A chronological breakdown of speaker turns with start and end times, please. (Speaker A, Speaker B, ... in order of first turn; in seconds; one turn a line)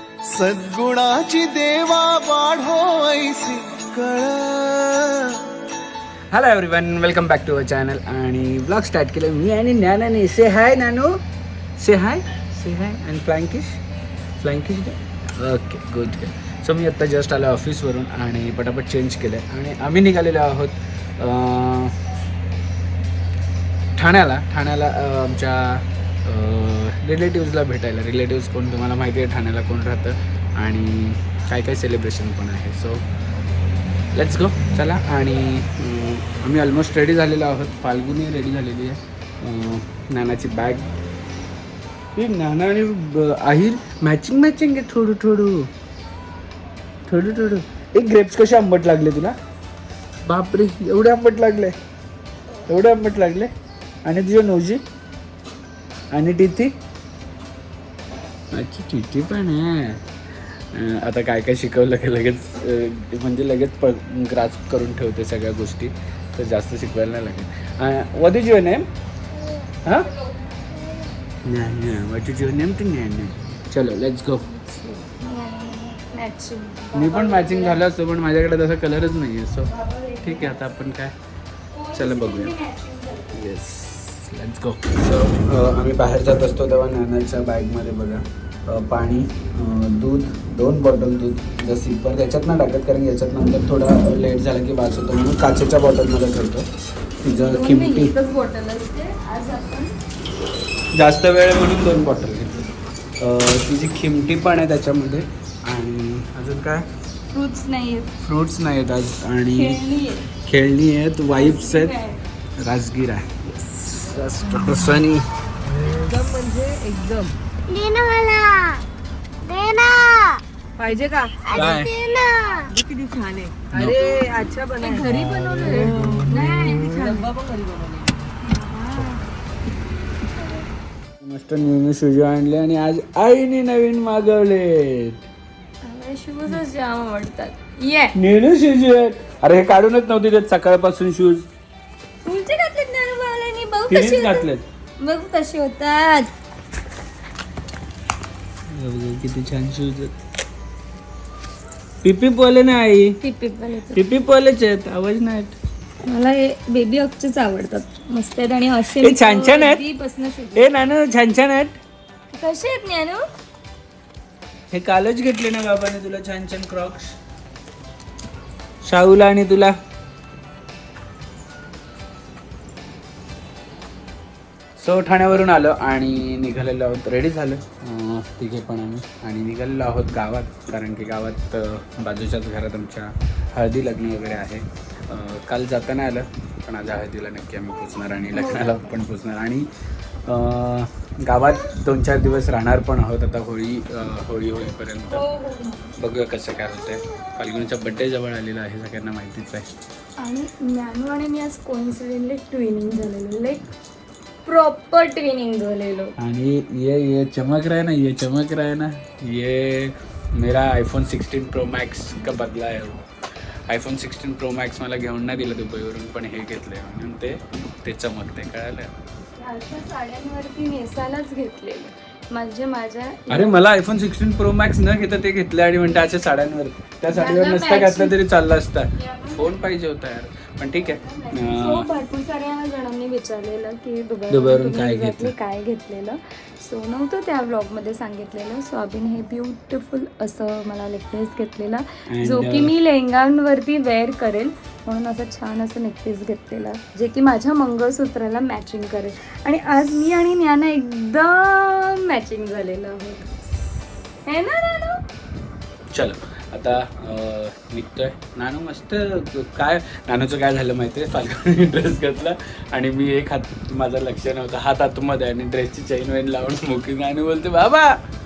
Speaker A: 0.3-5.5
Speaker B: 6.3-11.1
Speaker B: 11.8-13.8
Speaker B: 14.4-21.9
Speaker B: 23.9-33.0
Speaker B: 34.1-40.9
Speaker B: 42.1-45.7
Speaker B: 47.1-49.3
Speaker B: 50.2-51.7
Speaker B: 52.7-53.5
Speaker B: 54.0-54.8
Speaker B: 56.1-56.7
Speaker B: 58.5-60.0
Speaker B: 60.7-68.9
Speaker B: 71.5-74.5
Speaker C: 74.6-77.8
Speaker B: 76.9-79.7
Speaker C: 79.8-80.5
Speaker B: 80.2-81.1
Speaker C: 81.7-83.4
Speaker B: 81.9-82.5
Speaker B: 83.3-96.7
Speaker B: 97.2-98.1
Speaker C: 97.2-99.9
Speaker B: 100.9-102.6
Speaker B: 103.2-106.8
Speaker C: 107.3-108.1
Speaker B: 108.2-109.8
Speaker C: 109.5-110.3
Speaker B: 110.4-112.0
Speaker C: 111.3-112.2
Speaker B: 112.6-115.2
Speaker D: 117.7-118.8
Speaker D: 119.4-120.4
Speaker E: 120.8-121.3
Speaker D: 121.4-122.7
Speaker B: 121.5-121.9
Speaker B: 123.7-124.2
Speaker E: 124.1-127.3
Speaker C: 124.8-127.1
Speaker B: 131.2-135.2
Speaker C: 135.8-138.2
Speaker B: 138.1-141.4
Speaker C: 142.2-144.4
Speaker B: 143.9-144.6
Speaker C: 145.0-146.3
Speaker B: 148.7-150.1
Speaker B: 152.0-153.2
Speaker C: 153.2-154.0
Speaker B: 153.9-155.6
Speaker C: 156.0-160.7
Speaker B: 159.0-159.8
Speaker B: 160.5-161.8
Speaker C: 162.3-163.2
Speaker B: 164.7-167.2
Speaker B: 168.8-169.7
Speaker B: 174.8-189.7
Speaker C: 188.3-188.9
Speaker B: 190.3-195.2
Speaker C: 195.1-195.8
Speaker B: 196.0-199.7
Speaker C: 200.2-203.7
Speaker C: 204.4-206.2
Speaker B: 206.2-213.0
Speaker B: 213.7-219.0
Speaker C: 219.3-223.6
Speaker B: 223.3-231.9
Speaker C: 227.1-228.2
Speaker C: 229.0-229.5
Speaker C: 230.9-253.3
Speaker B: 234.3-235.3
Speaker B: 242.1-242.7
Speaker C: 254.3-255.0
Speaker B: 255.9-267.9